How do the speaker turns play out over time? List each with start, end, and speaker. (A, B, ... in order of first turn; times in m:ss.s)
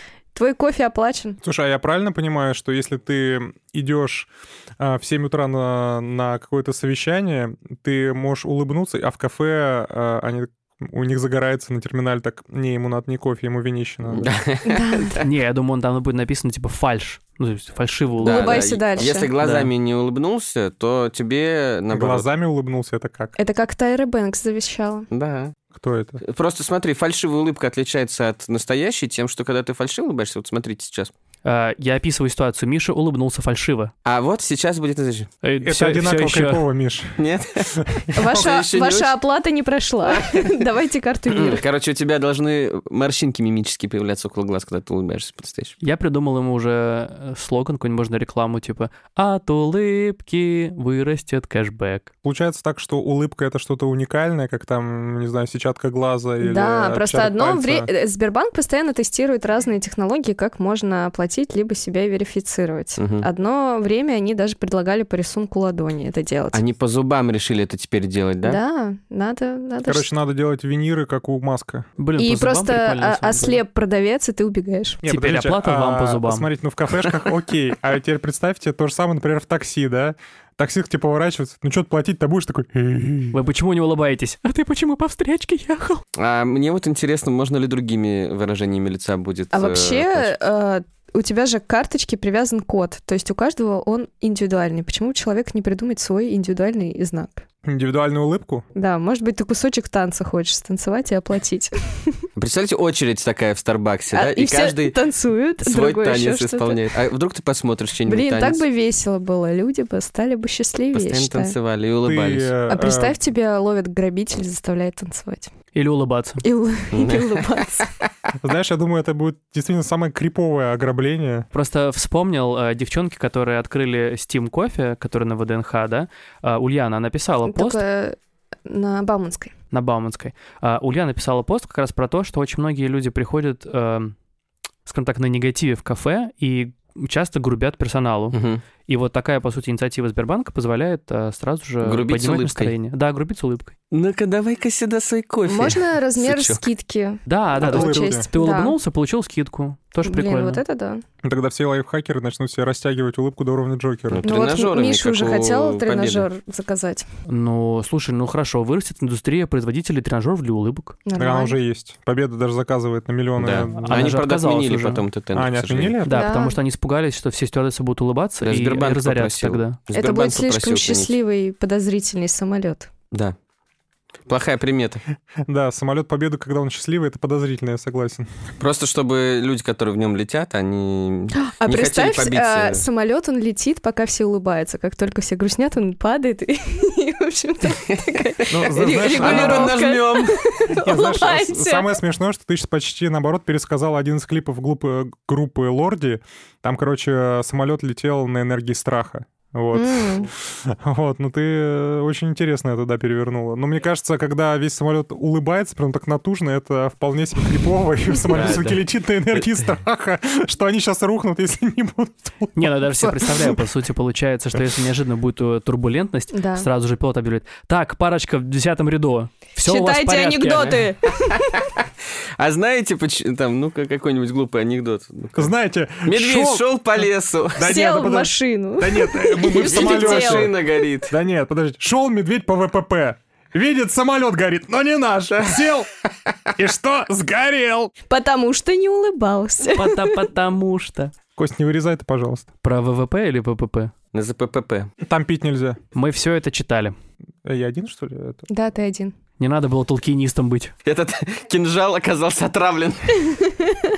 0:00.3-0:01.4 A
0:01.4-0:14.3 B
0:14.1-0:15.2 C
0:14.6-0:15.2 A
0:15.2-0:18.6 D
0:18.2-0:22.2 C
0:18.2-0:19.3 A
0:19.4-0:19.7 D
0:21.9-0:23.3 B
0:23.4-0:25.1 A
0:25.1-0:25.5 C
0:25.7-0:26.2 B
0:26.2-0:31.1 C
0:31.4-0:33.9 D
0:34.0-0:35.3 C
0:35.4-0:36.6 D
0:35.6-0:38.4 B
0:37.2-0:39.1 C
0:38.1-0:41.6 A
0:40.0-0:40.5 C
0:41.3-0:45.7 C
0:45.8-0:52.1 D
0:52.2-0:57.9 B
0:56.4-1:06.6 A
1:03.0-1:03.3 C
1:06.5-1:08.6 C
1:08.4-1:10.1 A
1:09.8-1:11.9 B
1:12.0-1:13.6 D
1:12.2-1:15.0 A
1:15.0-1:23.4 B
1:15.0-1:16.5 D
1:23.3-1:26.0 D
1:26.1-1:30.3 C
1:29.5-1:37.4 A
1:37.6-1:38.6 B
1:38.7-1:42.2 A
1:42.4-1:45.0 C
1:44.1-1:46.8 A
1:45.6-1:48.6 C
1:48.0-1:51.5 A
1:50.9-1:52.5 C
1:52.0-1:53.2 B
1:52.7-1:55.5 A
1:55.7-1:56.4 D
1:56.4-1:57.9 A
1:56.9-1:57.8 C
1:58.4-2:01.5 B
2:01.5-2:07.8 D
2:07.4-2:09.5 A
2:09.7-2:14.1 D
2:14.8-2:23.7 D
2:18.3-2:18.6 C
2:21.8-2:22.7 C
2:23.9-2:26.6 C
2:25.5-2:28.8 A
2:27.2-2:30.6 D
2:27.6-2:28.3 B
2:30.0-2:31.0 A
2:31.2-2:34.2 B
2:34.1-2:36.3 C
2:34.2-2:37.0 A
2:37.2-2:41.0 D
2:41.0-2:41.6 A
2:41.2-2:44.1 B
2:43.4-2:46.0 C
2:43.7-2:45.0 D
2:45.3-2:46.2 B
2:46.0-2:49.8 D
2:46.1-2:46.6 A
2:48.4-2:51.1 C
2:49.9-2:52.9 A
2:54.3-2:55.0 C
2:55.5-2:58.3 B
2:58.6-3:02.8 C
3:01.4-3:11.9 A
3:08.5-3:09.8 B
3:08.8-3:10.4 C
3:10.8-3:33.5 B
3:19.7-3:20.3 A
3:28.3-3:28.8 C
3:32.6-3:40.8 D
3:36.3-3:36.7 A
3:39.6-3:41.5 A
3:40.5-3:41.4 C
3:42.4-3:45.5 C
3:45.3-3:50.5 B
3:46.0-3:47.6 C
3:47.6-3:50.5 A
3:49.5-3:51.1 C
3:51.1-3:55.9 B
3:56.6-3:57.9 B
3:58.1-4:00.1 A
3:59.7-4:01.1 D
4:01.4-4:02.5 B
4:02.6-4:03.9 D
4:04.1-4:04.9 C
4:05.0-4:05.8 B
4:05.9-4:06.9 D
4:07.4-4:08.4 B
4:08.5-4:09.1 A
4:09.4-4:10.7 D
4:10.8-4:13.2 C